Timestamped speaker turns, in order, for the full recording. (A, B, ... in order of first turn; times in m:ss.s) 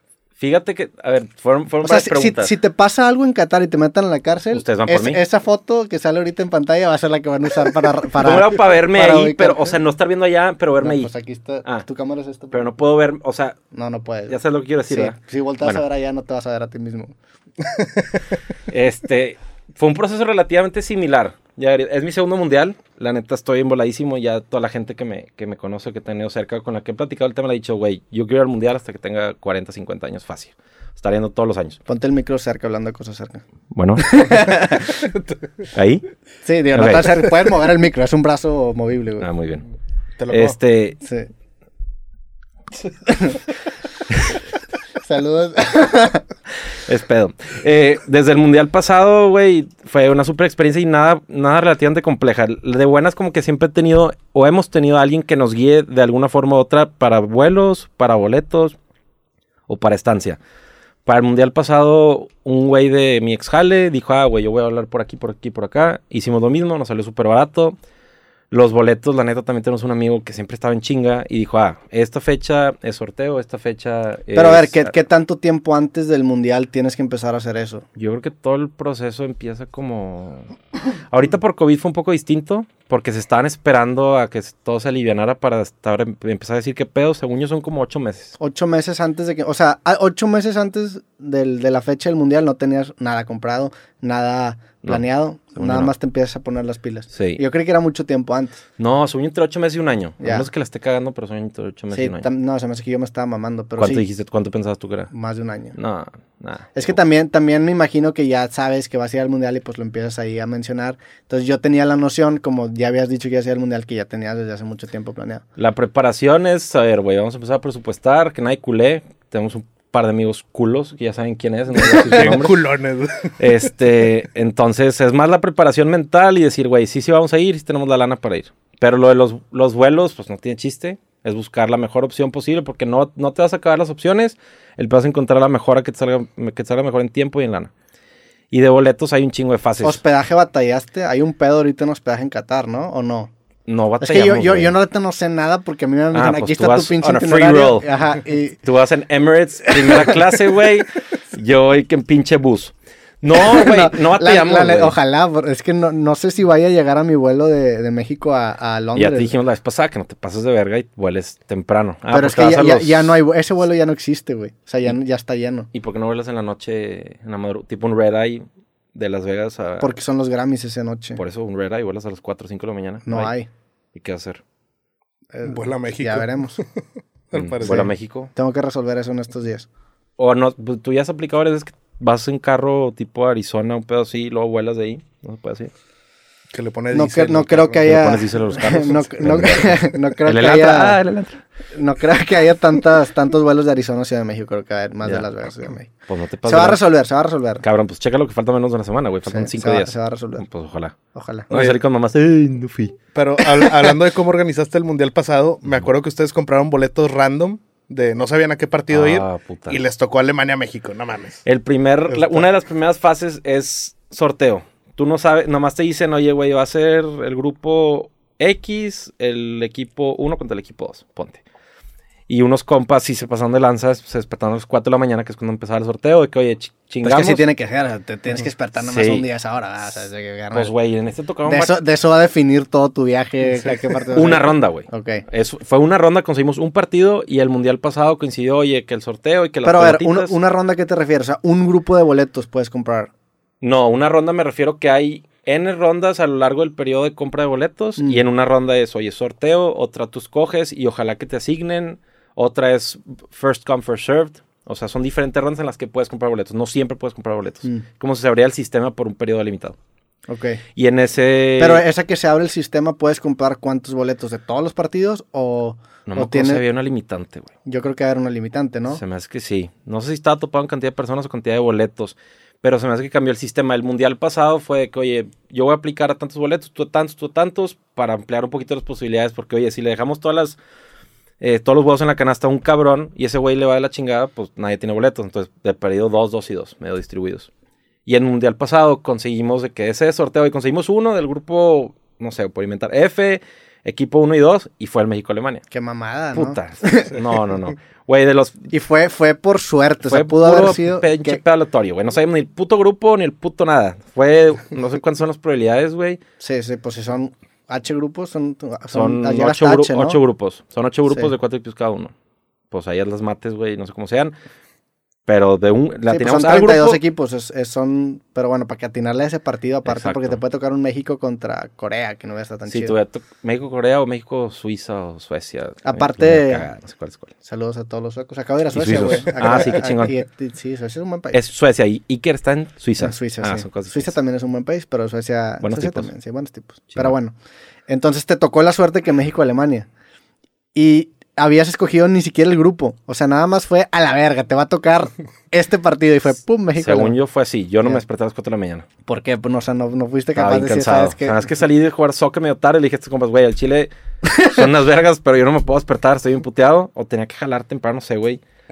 0:00.4-0:02.5 A
0:01.8-0:09.8 B
0:04.5-0:05.2 A
0:08.2-0:11.1 A
0:10.8-0:12.7 B
0:12.5-0:13.6 A
0:13.7-0:17.1 B
0:14.3-0:15.8 A
0:18.7-0:31.8 A
0:31.9-0:33.4 B
0:33.7-0:34.8 A
0:34.0-0:35.1 B
0:35.8-0:36.0 A
0:36.4-0:39.3 B
0:36.7-0:37.2 A
0:39.2-0:39.7 A
0:40.2-0:40.6 C
0:40.3-0:41.0 A
0:41.0-0:41.3 B
0:42.9-0:43.4 B
0:45.0-0:46.2 B
0:46.8-0:58.8 A
0:59.7-1:00.4 A
1:01.1-1:07.8 A
1:08.5-1:14.9 A
1:14.3-1:17.8 B
1:18.0-1:20.5 A
1:21.1-1:28.4 A
1:28.4-1:38.6 B
1:35.6-1:35.9 A
1:37.1-1:37.4 A
1:38.8-1:42.3 A
1:40.2-1:40.5 B
1:41.9-1:44.0 B
1:43.8-1:45.1 A
1:45.1-1:45.8 B
1:45.8-1:46.9 A
1:46.7-1:55.4 B
1:55.6-2:02.6 A
2:01.7-2:03.3 C
2:03.4-2:17.7 A
2:18.5-2:20.0 A
2:19.8-2:23.3 B
2:23.7-2:24.7 A
2:24.0-2:28.6 B
2:26.1-2:27.9 A
2:28.6-2:35.0 A
2:29.8-2:30.2 B
2:33.3-2:39.3 B
2:39.0-2:43.2 A
2:42.1-2:45.7 B
2:45.7-2:49.9 A
2:49.8-2:51.2 B
2:51.2-2:53.3 A
2:53.1-2:53.5 B
2:54.0-2:54.4 A
2:55.3-2:56.6 B
2:55.4-2:56.6 C
2:57.3-2:57.9 C
2:57.3-2:58.3 A
2:57.6-2:59.7 B
3:00.2-3:05.7 A
3:06.5-3:08.0 C
3:06.9-3:11.0 B
3:07.8-3:11.4 A
3:11.7-3:15.9 B
3:15.0-3:15.3 A
3:16.1-3:16.8 A
3:16.5-3:17.6 B
3:17.6-3:20.9 A
3:19.3-3:20.4 B
3:21.1-3:21.5 B
3:21.5-3:21.8 C
3:21.5-3:23.0 A
3:23.1-3:31.4 C
3:28.9-3:29.8 A
3:31.5-3:41.4 A
3:42.3-3:47.4 A
3:47.0-3:50.7 B
3:48.8-3:49.3 A
3:50.5-3:51.7 A
3:51.4-3:55.2 B
3:54.1-4:00.3 A
3:59.6-4:03.1 B
4:03.6-4:19.8 A
4:08.0-4:08.2 B
4:20.3-4:20.6 B
4:20.8-4:21.8 A
4:21.6-4:26.6 B
4:26.1-4:27.5 A
4:27.7-4:29.0 B
4:28.9-4:40.6 A
4:41.4-4:47.5 A
4:48.1-4:55.6 A
4:55.7-4:57.2 B
4:56.3-4:58.7 A
4:58.7-5:01.4 B
5:00.1-5:06.2 A
5:06.4-5:10.2 B
5:08.9-5:12.1 A
5:12.7-5:14.3 A
5:15.3-5:17.0 A
5:16.1-5:23.0 B
5:19.8-5:20.4 A
5:22.7-5:27.3 A
5:25.8-5:26.7 B
5:27.4-5:31.4 B
5:28.7-5:30.1 A
5:31.3-5:34.1 A
5:33.0-5:37.3 B
5:35.6-5:36.1 A
5:37.9-5:39.9 B
5:40.7-5:47.2 B
5:46.8-5:48.9 A
5:49.1-5:51.4 B
5:50.4-5:58.4 A